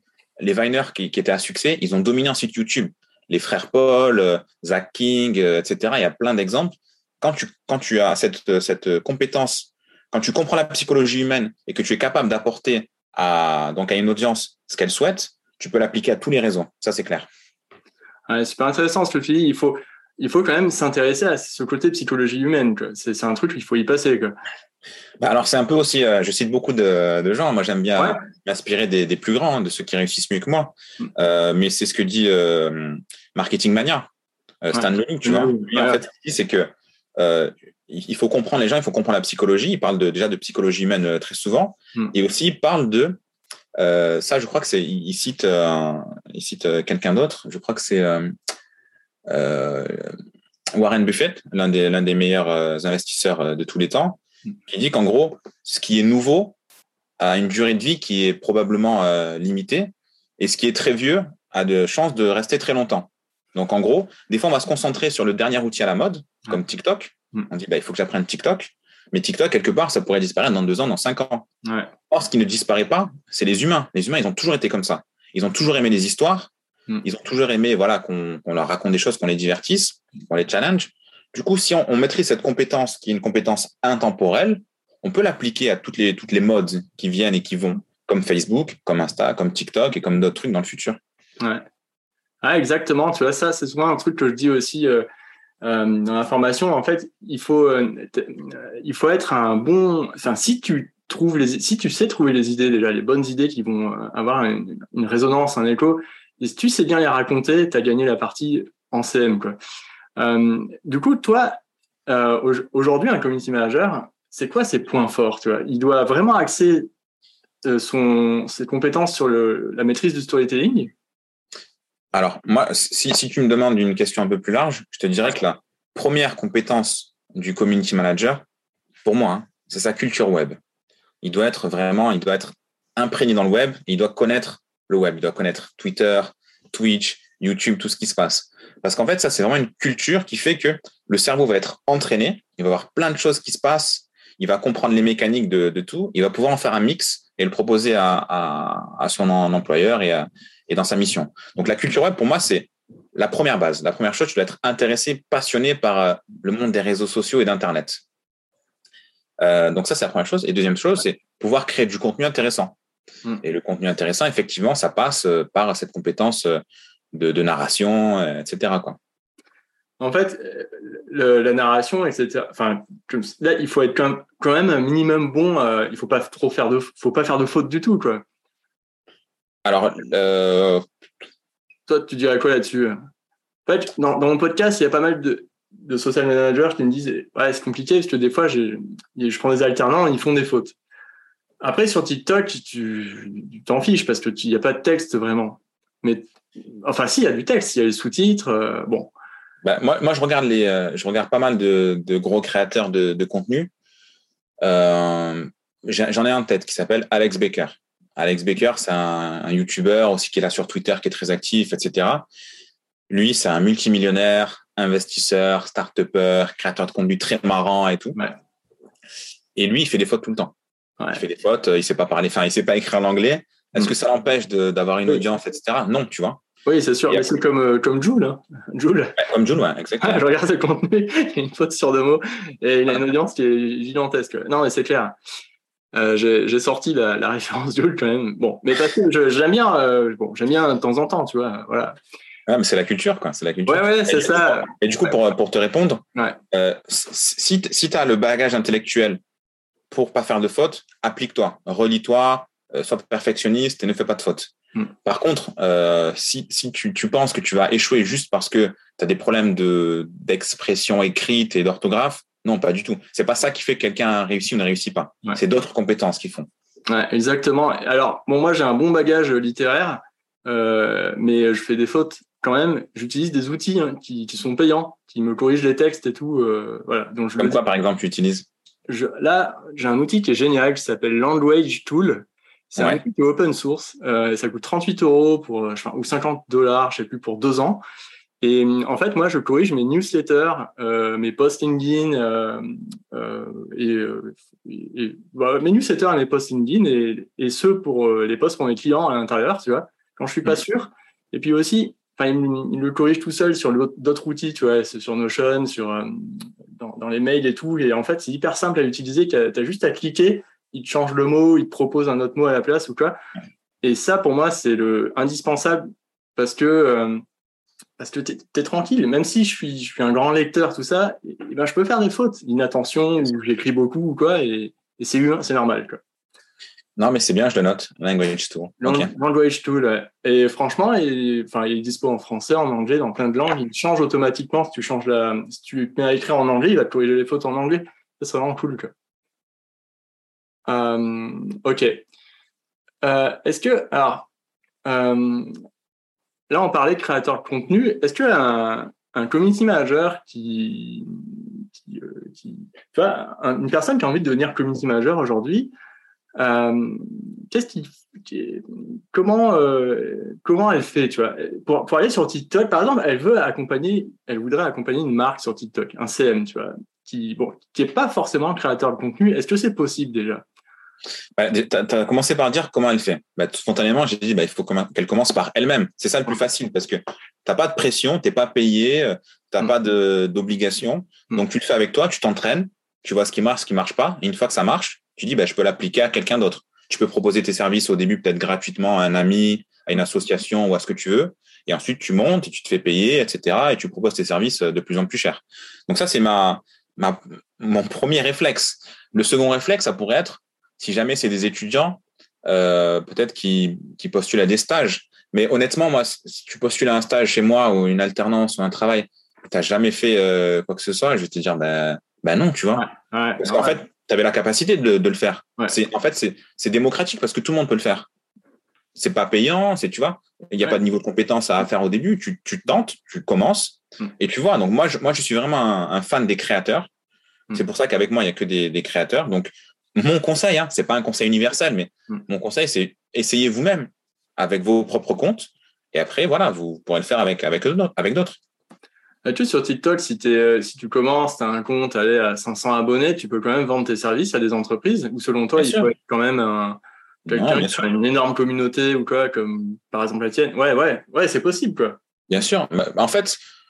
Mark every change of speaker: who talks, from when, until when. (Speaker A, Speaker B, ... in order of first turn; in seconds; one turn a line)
Speaker A: 0.4-17.3
Speaker B: 18.3-24.4
Speaker A: 25.2-34.1
Speaker B: 28.0-28.2
Speaker A: 34.6-43.2
Speaker B: 34.7-36.0
Speaker A: 43.8-48.3
Speaker A: 49.3-50.1
Speaker A: 50.7-56.5
Speaker A: 57.2-71.5
Speaker B: 71.6-71.9
Speaker A: 72.1-76.5
Speaker A: 77.0-91.0
Speaker B: 91.4-91.6
Speaker B: 92.4-95.0
Speaker B: 95.6-109.5
Speaker B: 110.2-116.9
Speaker B: 117.6-120.9
Speaker A: 122.1-128.4
Speaker A: 129.0-130.6
Speaker A: 131.2-158.0
Speaker A: 159.4-162.8
Speaker A: 163.4-166.6
Speaker A: 167.1-169.0
Speaker B: 170.0-178.2
Speaker A: 179.6-180.8
Speaker B: 181.9-183.0
Speaker B: 183.7-190.8
Speaker B: 191.6-199.1
Speaker A: 199.6-203.7
Speaker A: 204.6-212.3
Speaker A: 213.1-218.2
Speaker A: 219.6-220.5
Speaker A: 221.1-226.4
Speaker B: 226.7-229.2
Speaker A: 229.2-230.2
Speaker B: 230.0-235.2
Speaker B: 235.9-241.9
Speaker A: 242.5-249.2
Speaker B: 243.7-244.7
Speaker A: 249.9-254.5
Speaker A: 255.0-266.5
Speaker B: 266.9-277.6
Speaker A: 277.4-278.5
Speaker B: 278.9-287.8
Speaker B: 288.4-313.2
Speaker B: 313.8-317.2
Speaker B: 318.0-326.0
Speaker A: 327.0-329.1
Speaker B: 328.8-338.9
Speaker B: 340.7-342.0
Speaker B: 343.0-344.3
Speaker B: 344.9-345.6
Speaker B: 346.5-355.7
Speaker B: 356.4-370.4
Speaker A: 371.4-412.9
Speaker B: 412.7-413.8
Speaker A: 413.4-418.1
Speaker A: 418.9-426.9
Speaker A: 427.5-438.4
Speaker B: 439.2-452.0
Speaker A: 445.6-445.9
Speaker A: 447.3-447.8
Speaker A: 452.3-453.4